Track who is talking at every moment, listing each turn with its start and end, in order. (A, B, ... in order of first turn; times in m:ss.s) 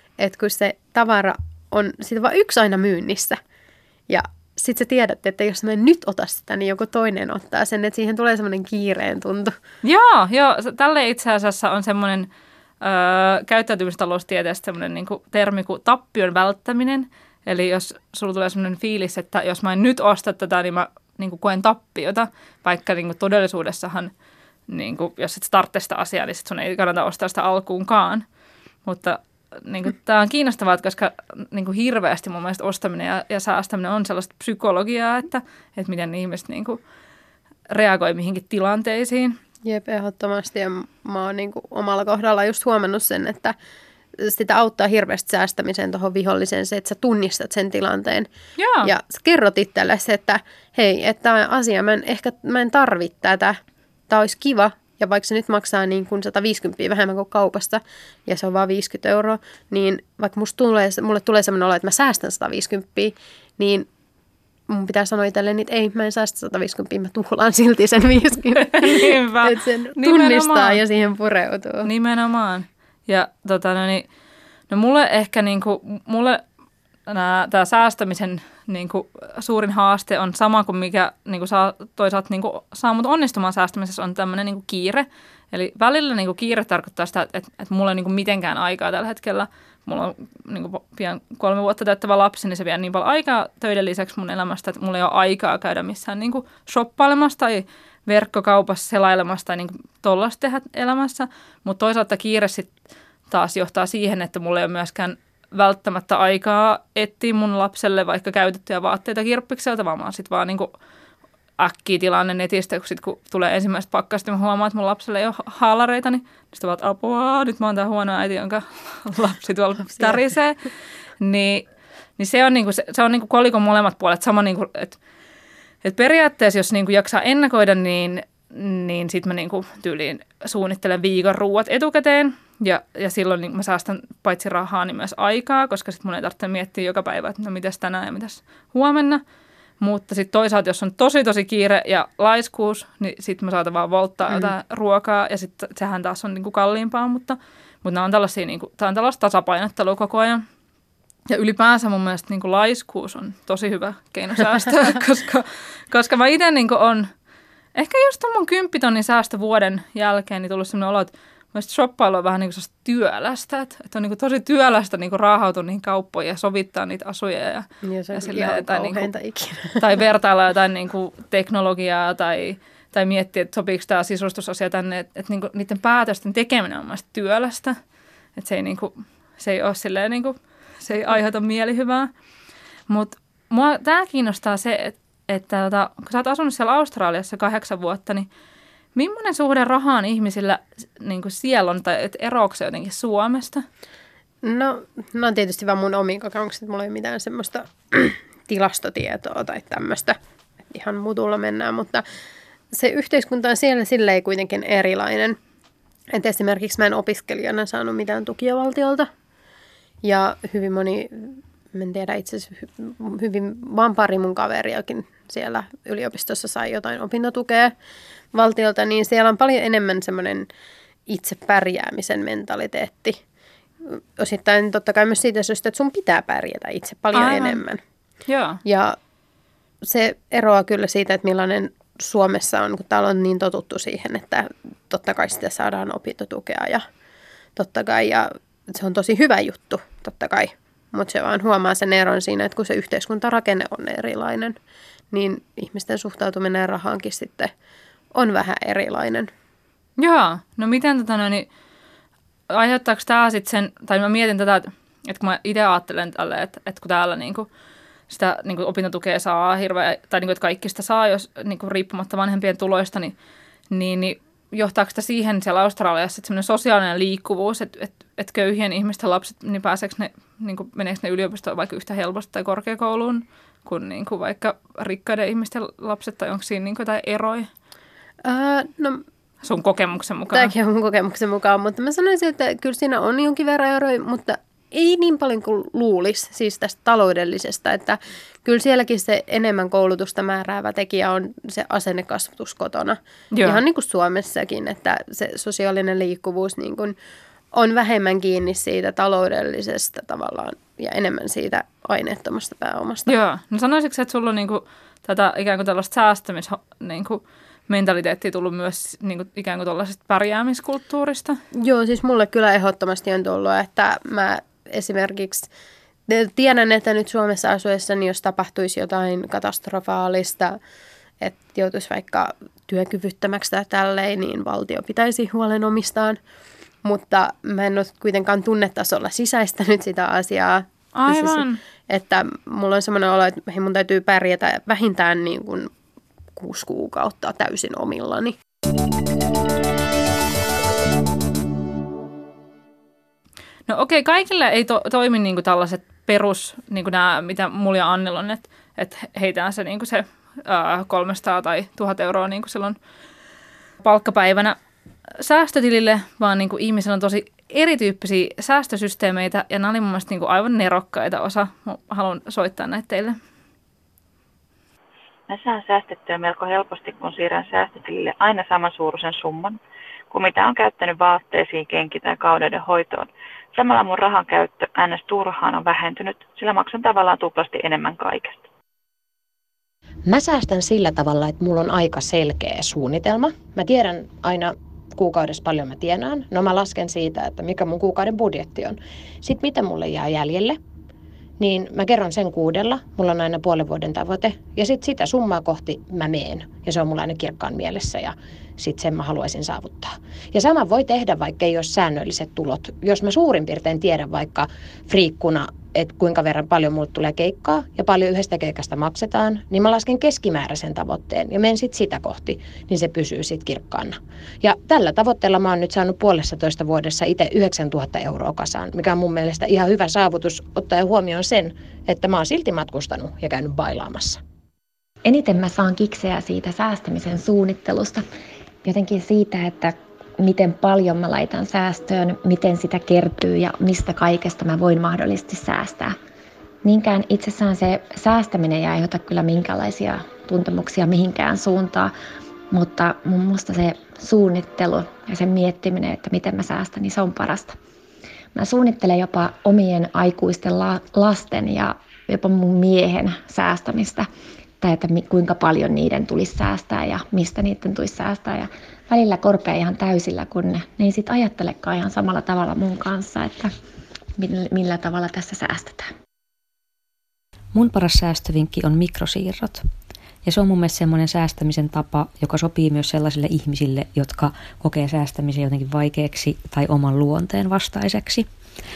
0:00.2-0:03.4 A
0:04.1-0:09.6 A
0:09.8-0:12.3 B
0:12.8-0:24.1 B
0:24.7-0:28.2 B
0:28.8-0:36.8 B
0:37.7-0:39.4 B
0:39.6-0:43.6 A
0:44.2-0:48.3 A
0:48.6-0:48.9 B
0:48.8-0:53.6 A
0:54.1-1:03.9 A
1:04.7-1:11.9 A
1:08.6-1:10.8 B
1:11.8-1:14.1 B
1:14.7-1:16.4 B
1:17.1-1:42.7 B
1:43.3-1:50.7 B
1:51.6-2:00.6 B
2:01.2-2:01.7 B
2:02.2-2:05.0 B
2:05.8-2:19.2 B
2:19.8-2:30.4 B
2:31.3-2:37.1 B
2:37.8-2:49.1 B
2:47.8-2:49.9 A
2:49.8-2:57.8 B
2:58.4-3:02.1 B
3:02.9-3:08.3 B
3:09.0-3:13.7 B
3:14.4-3:20.2 A
3:20.7-3:22.0 A
3:22.7-3:25.4 A
3:26.1-3:29.1 A
3:30.0-3:37.7 A
3:38.3-3:40.5 A
3:41.1-3:43.2 A
3:43.9-3:47.8 A
3:47.1-3:47.6 B
3:48.3-3:48.6 B
3:48.7-3:49.0 A
3:49.8-3:56.8 A
3:57.6-4:04.6 A
4:05.1-4:07.5 A
4:08.2-4:09.3 A
4:10.0-4:11.5 B
4:12.5-4:17.5 B
4:18.1-4:23.2 B
4:23.7-4:37.5 B
4:38.2-4:39.0 A
4:39.4-4:40.5 B
4:40.3-4:57.0 A
4:53.3-4:53.6 B
4:57.5-5:03.1 A
5:03.1-5:11.4 B
5:11.6-5:15.5 A
5:16.1-5:20.6 A
5:21.2-5:26.2 A
5:26.8-5:35.7 A
5:31.0-5:31.6 B
5:36.4-5:38.4 A
5:43.7-5:52.8 B
5:53.8-5:54.6 B
5:55.2-6:03.2 B
6:05.3-6:09.6 C
6:10.1-6:18.4 C
6:20.1-6:30.6 D
6:31.4-7:04.2 D
7:05.0-7:08.0 E
7:08.6-7:16.0 E
7:16.6-7:21.9 E
7:22.5-7:27.6 E
7:28.3-7:34.1 E
7:34.6-7:43.5 E
7:44.2-7:45.9 E
7:47.5-7:49.7 F
7:50.2-7:58.3 F